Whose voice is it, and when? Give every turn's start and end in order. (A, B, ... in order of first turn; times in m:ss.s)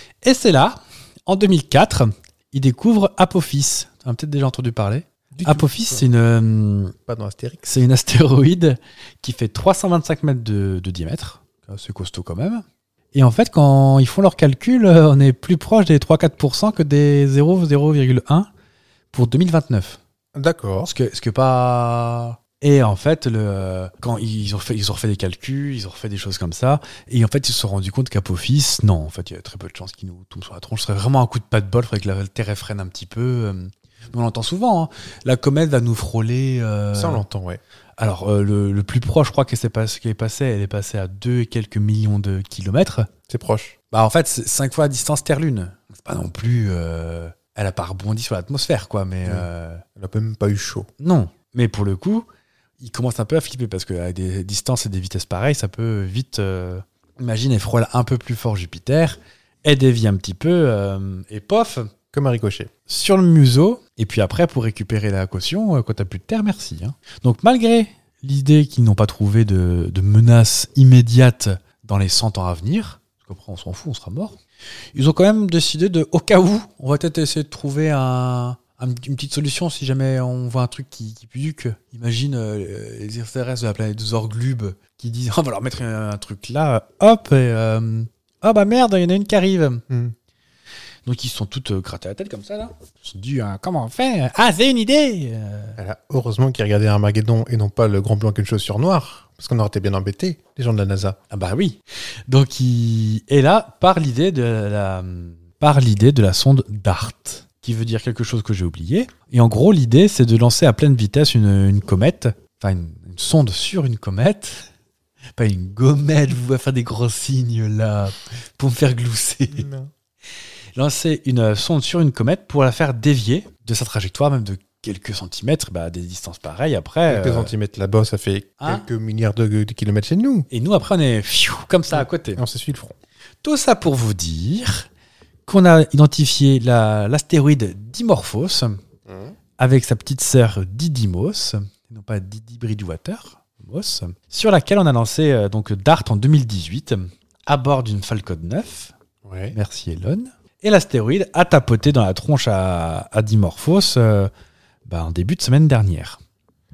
0:00.2-0:06.9 A
0:05.3-0:06.1 B
0:07.1-0:07.6 B
0:07.6-0:18.5 A
0:19.1-0:20.0 A
0:20.3-0:20.9 B
0:20.8-0:37.2 A
0:36.9-0:37.6 B
0:38.0-0:43.1 A
0:43.3-0:43.7 B
0:43.9-0:49.8 A
0:49.2-0:50.9 B
0:51.0-0:52.3 A
0:52.8-1:01.9 A
1:02.1-1:02.7 B
1:02.9-1:14.4 A
1:14.9-1:29.8 A
1:31.0-1:35.8 A
1:35.8-1:41.2 B
1:41.3-1:54.7 A
1:55.4-1:59.7 A
1:59.5-1:59.9 B
2:00.8-2:07.5 A
2:07.1-2:10.5 B
2:08.6-2:08.8 A
2:10.5-2:12.4 A
2:11.9-2:13.0 B
2:13.4-2:14.9 A
2:15.5-2:18.8 A
2:19.1-2:19.3 B
2:19.6-2:28.9 A
2:29.2-2:29.6 B
2:29.5-2:34.3 A
2:34.8-2:36.2 A